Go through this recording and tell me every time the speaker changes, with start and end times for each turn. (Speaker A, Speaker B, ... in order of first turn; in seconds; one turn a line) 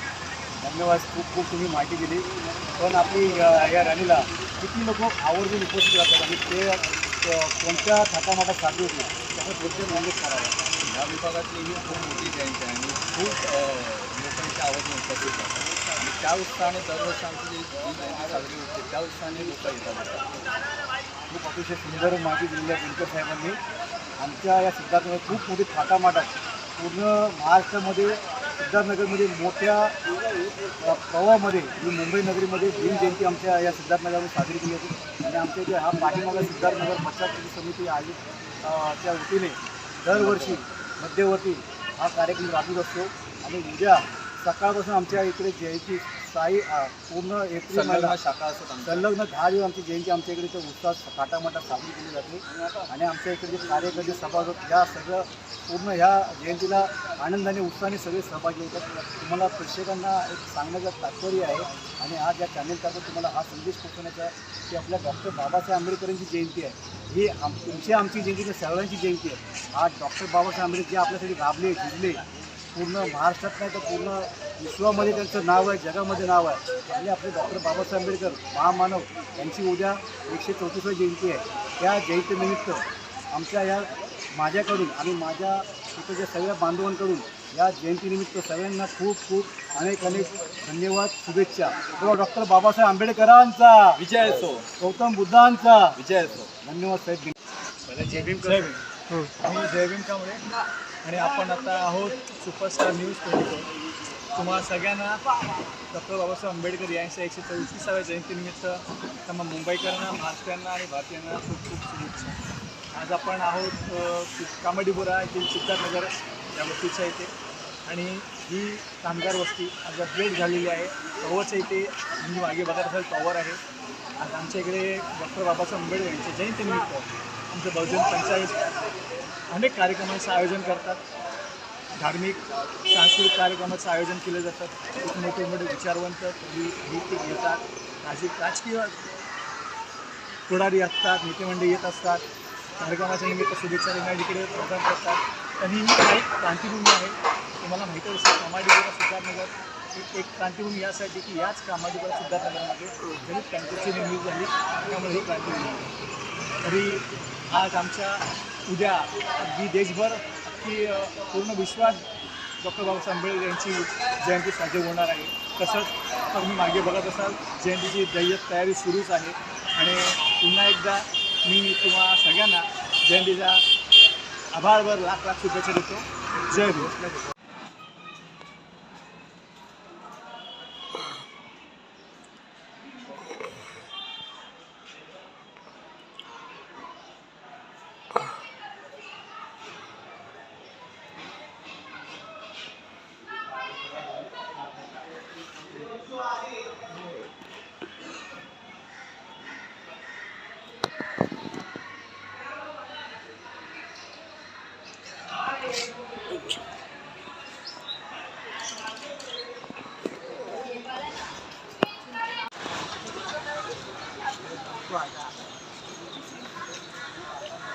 Speaker A: 0.6-10.6
Speaker B: 10.8-20.3
Speaker A: 21.3-23.6
Speaker A: 24.2-29.9
Speaker A: 30.8-48.2
Speaker B: 40.2-40.6
Speaker B: 47.7-49.1
Speaker A: 48.8-94.0
Speaker B: 94.0-94.7
Speaker A: 94.8-96.0
Speaker B: 96.0-96.5
Speaker A: 96.5-97.3
Speaker B: 97.9-98.8
Speaker A: 98.1-98.8
Speaker A: 99.4-100.4
Speaker C: 101.0-103.3
Speaker B: 104.4-104.8
Speaker C: 105.9-109.6
Speaker B: 109.6-111.1
Speaker C: 110.4-111.4
Speaker C: 113.0-113.5
Speaker B: 113.6-114.2
Speaker C: 114.4-117.3
Speaker C: 117.9-123.6
Speaker C: 124.2-128.5
Speaker C: 129.5-131.0
Speaker C: 132.0-132.4
Speaker C: 132.9-138.9
Speaker C: 140.5-142.2
Speaker C: 142.8-155.8
Speaker C: 156.6-162.0
Speaker C: 162.6-173.6
Speaker C: 174.5-176.0
Speaker A: 176.5-176.8